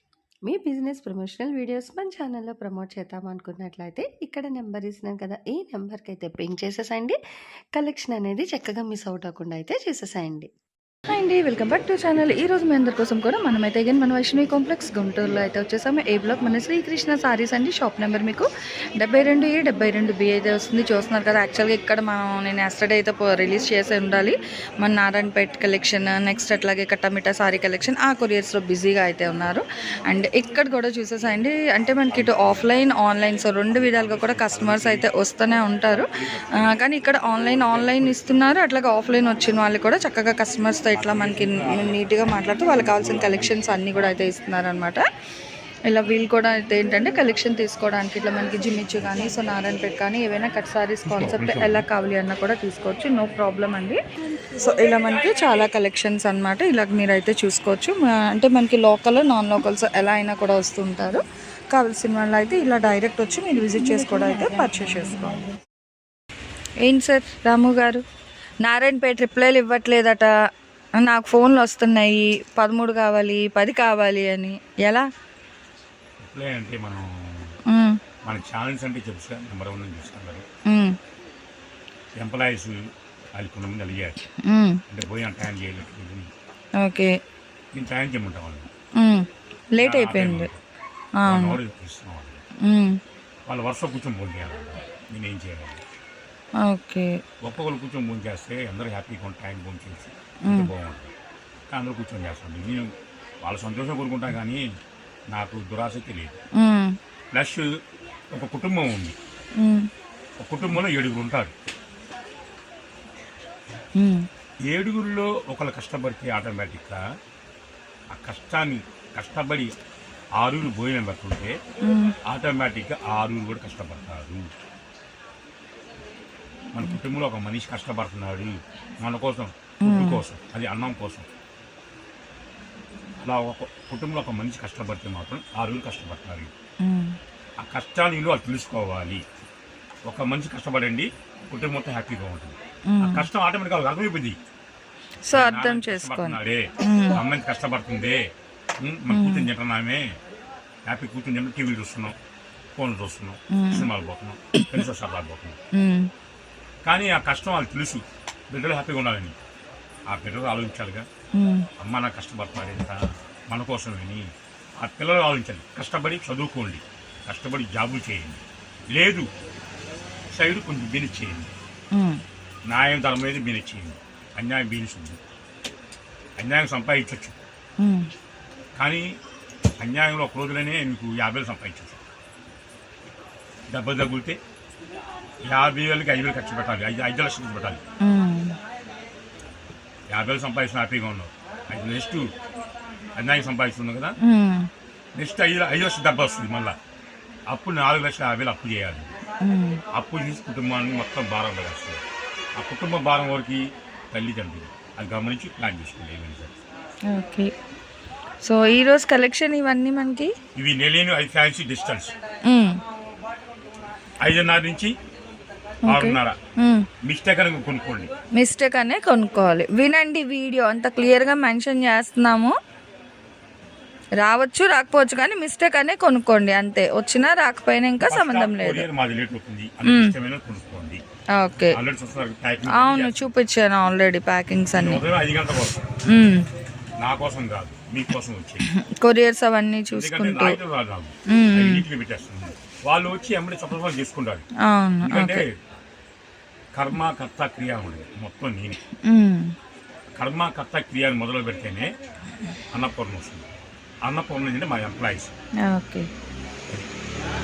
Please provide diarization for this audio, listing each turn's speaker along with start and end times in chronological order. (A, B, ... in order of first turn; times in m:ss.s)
0:00.4-0:07.2 A
0:07.7-0:10.5 A
0:11.1-0:18.5 B
0:19.0-0:36.1 B
0:32.1-0:33.0 C
0:33.7-0:36.7 C
0:36.6-0:45.0 B
0:37.4-0:38.4 C
0:40.9-0:44.2 C
0:45.9-0:54.0 B
0:51.0-0:51.9 C
0:54.6-1:05.4 B
1:06.8-1:08.0 B
1:08.6-1:10.3 B
1:11.0-1:15.1 B
1:16.2-1:17.6 C
1:17.7-1:18.0 B
1:18.2-1:20.4 C
1:20.7-1:20.9 B
1:22.1-1:22.8 C
1:23.3-1:24.2 C
1:24.4-1:24.8 B
1:24.9-1:26.3 C
1:26.8-1:27.1 B
1:27.7-1:28.7 C
1:29.0-1:30.5 B
1:29.8-1:30.6 C
1:31.2-1:31.6 B
1:31.2-1:32.4 C
1:32.6-1:33.0 B
1:33.5-1:35.8 C
1:36.6-1:37.1 B
1:37.4-1:41.1 C
1:41.7-1:42.9 C
1:43.4-1:44.6 C
1:45.3-1:46.4 C
1:46.6-1:46.9 B
1:47.3-1:47.7 C
1:48.3-1:49.2 C
1:49.6-1:49.9 B
1:50.4-1:51.5 C
1:54.0-1:54.2 B
1:54.7-1:57.0 C
1:58.1-1:59.7 C
2:00.4-2:01.5 C
2:01.8-2:02.1 B
2:02.2-2:04.4 C
2:06.7-2:11.2 C
2:09.8-2:10.2 B
2:13.2-2:16.5 C
2:16.8-2:17.1 B
2:17.6-2:19.2 C
2:20.1-2:24.4 C
2:22.9-2:23.3 B
2:25.2-2:27.2 B
2:25.3-2:28.2 C
2:28.8-2:30.0 C
2:29.1-2:29.5 B
2:30.9-2:32.2 C
2:32.8-2:35.6 C
2:33.5-2:33.9 B
2:34.5-2:34.8 B
2:35.8-2:36.1 B
2:36.8-2:39.3 C
2:40.1-2:41.0 C
2:41.4-2:41.7 B
2:41.8-2:43.0 C
2:43.5-2:44.2 C
2:44.8-2:48.4 C
2:48.9-2:49.3 C
2:50.3-2:51.5 C
2:52.7-2:55.2 C
2:56.4-2:57.4 C
2:57.8-2:58.1 B
2:58.8-2:59.1 C
2:59.8-3:02.0 C
3:03.7-3:04.4 C
3:05.4-3:07.8 C
3:08.0-3:08.5 B
3:10.1-3:12.3 C
3:13.2-3:14.2 C
3:14.2-3:14.7 B
3:15.2-3:16.8 C
3:17.5-3:19.1 C
3:19.4-3:19.8 B
3:19.9-3:22.0 C
3:22.6-3:26.5 C
3:27.1-3:27.5 B
3:28.4-3:30.3 B
3:30.6-3:32.1 C
3:32.5-3:32.8 B
3:34.2-3:34.9 C
3:35.9-3:36.4 C
3:35.9-3:36.9 B
3:37.0-3:38.1 C
3:38.4-3:42.5 B
3:44.2-3:48.8 B
3:48.0-3:51.0 C
3:49.8-3:50.1 B
3:51.4-3:51.8 B
3:51.7-3:53.3 C
3:52.7-3:55.0 B
3:54.7-3:55.8 C
3:56.1-3:56.4 B
3:57.0-3:58.6 C
3:58.6-4:00.6 B
3:59.9-4:04.4 C
4:01.3-4:01.8 B
4:04.7-4:05.4 B
4:05.0-4:05.5 C
4:06.7-4:08.8 C
4:09.1-4:09.5 B
4:10.1-4:11.9 C
4:12.7-4:13.4 C
4:14.0-4:15.3 C
4:15.7-4:16.1 B